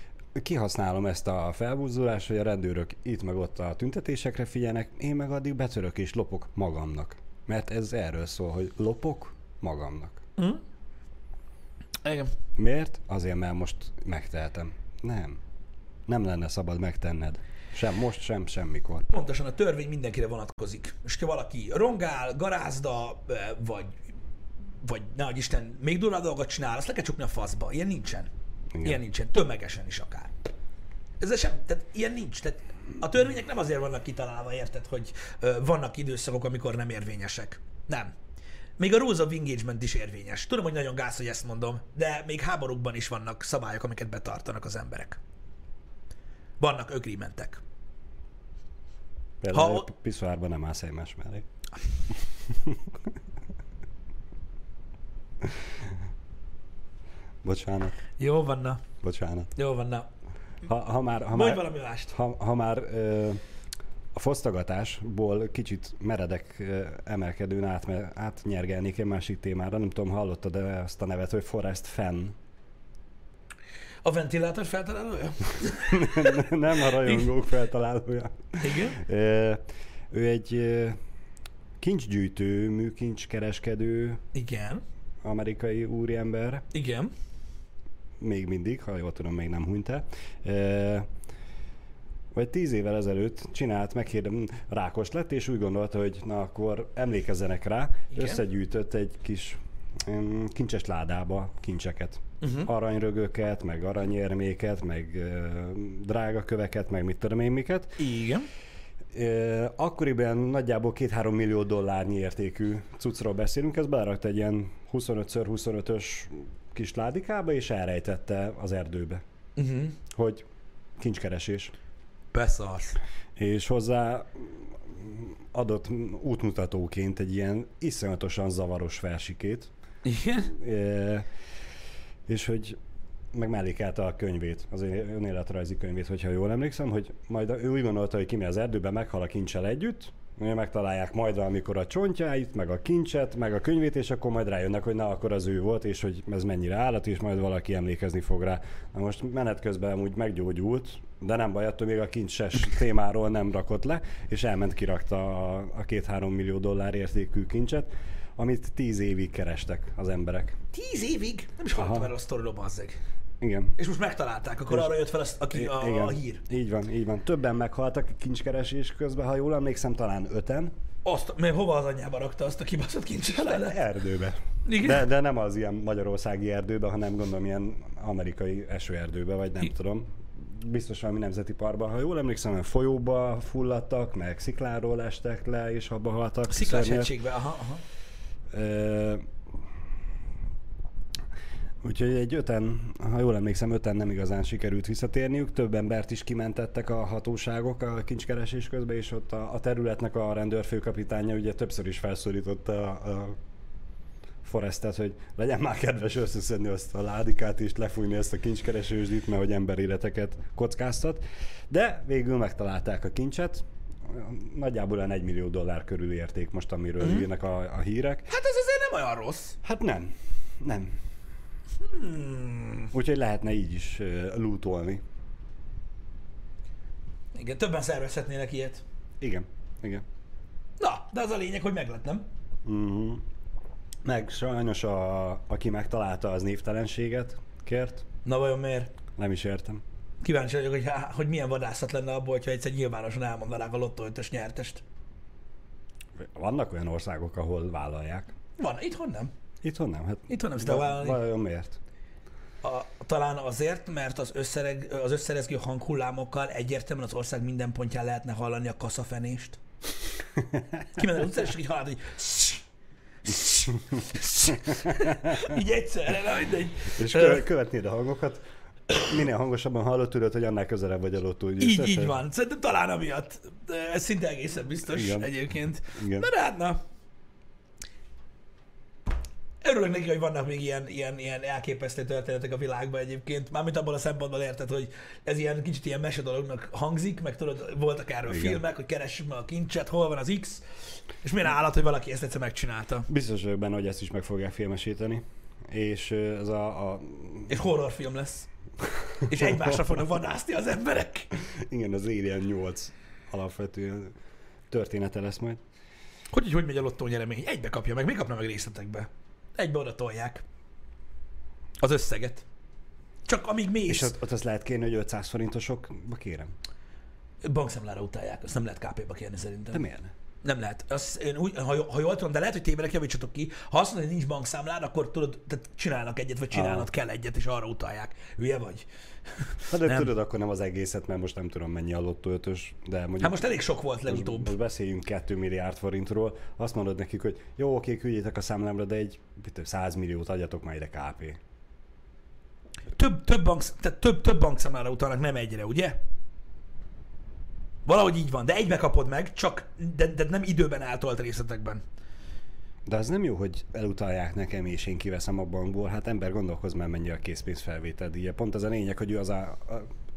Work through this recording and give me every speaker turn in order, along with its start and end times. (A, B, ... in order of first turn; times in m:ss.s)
0:00.3-0:10.2 A
0:12.0-0:12.3 B
0:12.6-0:15.4 A
0:16.1-0:19.0 A
0:19.1-0:24.0 B
0:24.8-0:28.3 B
0:28.7-0:29.0 A
0:28.8-0:30.5 B
0:31.2-0:38.1 B
0:38.8-0:45.2 B
0:46.6-0:47.6 B
0:49.4-0:51.4 A
0:49.5-0:49.9 B
0:52.5-0:52.8 A
0:57.4-0:58.0 A
0:58.2-0:58.8 B
0:59.0-0:59.5 A
0:59.6-1:00.1 B
1:00.6-1:03.4 A
1:01.3-1:02.1 B
1:04.1-1:12.4 A
1:14.0-1:16.5 B
1:15.9-1:21.0 A
1:18.6-1:19.0 B
1:21.8-1:24.2 A
1:24.3-1:24.8 B
1:25.2-1:26.6 A
1:26.7-1:27.1 B
1:28.2-1:31.1 A
1:32.3-1:48.0 A
1:38.1-1:38.4 B
1:42.4-1:42.7 B
1:48.0-1:48.5 B
1:49.1-1:59.2 A
1:59.6-2:00.0 B
2:00.1-2:00.4 A
2:01.0-2:01.7 A
2:02.3-2:03.0 B
2:03.4-2:09.7 A
2:10.0-2:10.5 B
2:10.5-2:11.3 A
2:12.3-2:12.8 A
2:13.3-2:40.6 A
2:40.7-2:43.0 B
2:41.8-2:42.1 A
2:43.4-2:43.8 A
2:43.8-2:46.4 B
2:44.7-2:44.9 A
2:45.5-2:50.7 A
2:51.0-2:53.8 B
2:53.3-3:07.1 A
2:54.6-2:55.0 B
3:06.5-3:07.8 B
3:08.5-3:09.3 A
3:11.8-3:23.4 A
3:24.4-3:38.3 A
3:37.0-3:37.3 B
3:38.3-3:39.6 B
3:39.6-3:41.0 A
3:41.8-3:42.9 B
3:42.9-3:45.0 A
3:47.3-3:48.8 B
3:49.2-3:50.0 A
3:50.8-3:52.2 B
3:52.6-3:53.2 A
3:54.0-3:58.0 A
3:58.2-3:58.9 B
3:59.2-3:59.8 A
4:00.2-4:04.8 B
4:06.2-4:08.3 A
4:08.6-4:09.3 B
4:09.6-4:11.8 A
4:10.3-4:11.2 B
4:12.6-4:19.6 B
4:20.9-4:22.6 B
4:23.2-4:27.4 B
4:26.9-4:28.4 A
4:29.0-4:32.2 A
4:31.6-4:36.8 B
4:34.9-4:35.3 A
4:35.9-4:36.3 A
4:39.6-4:50.6 B
4:48.3-4:48.6 A
4:51.2-4:53.1 B
4:53.1-4:57.5 A
4:57.5-4:58.5 B
4:58.8-4:59.8 A
4:59.2-5:01.3 B
5:01.3-5:04.1 A
5:04.7-5:05.6 A
5:06.3-5:10.4 B
5:11.8-5:12.4 B
5:13.3-5:14.1 B
5:13.9-5:16.5 A
5:17.4-5:19.8 B
5:19.7-5:20.1 A
5:20.4-5:28.9 B
5:26.5-5:26.9 A
5:29.4-5:30.1 B
5:29.7-5:33.4 A
5:33.2-5:34.5 B
5:34.0-5:41.4 A
5:42.9-5:46.0 B
5:47.8-5:51.8 B
5:52.8-5:59.9 A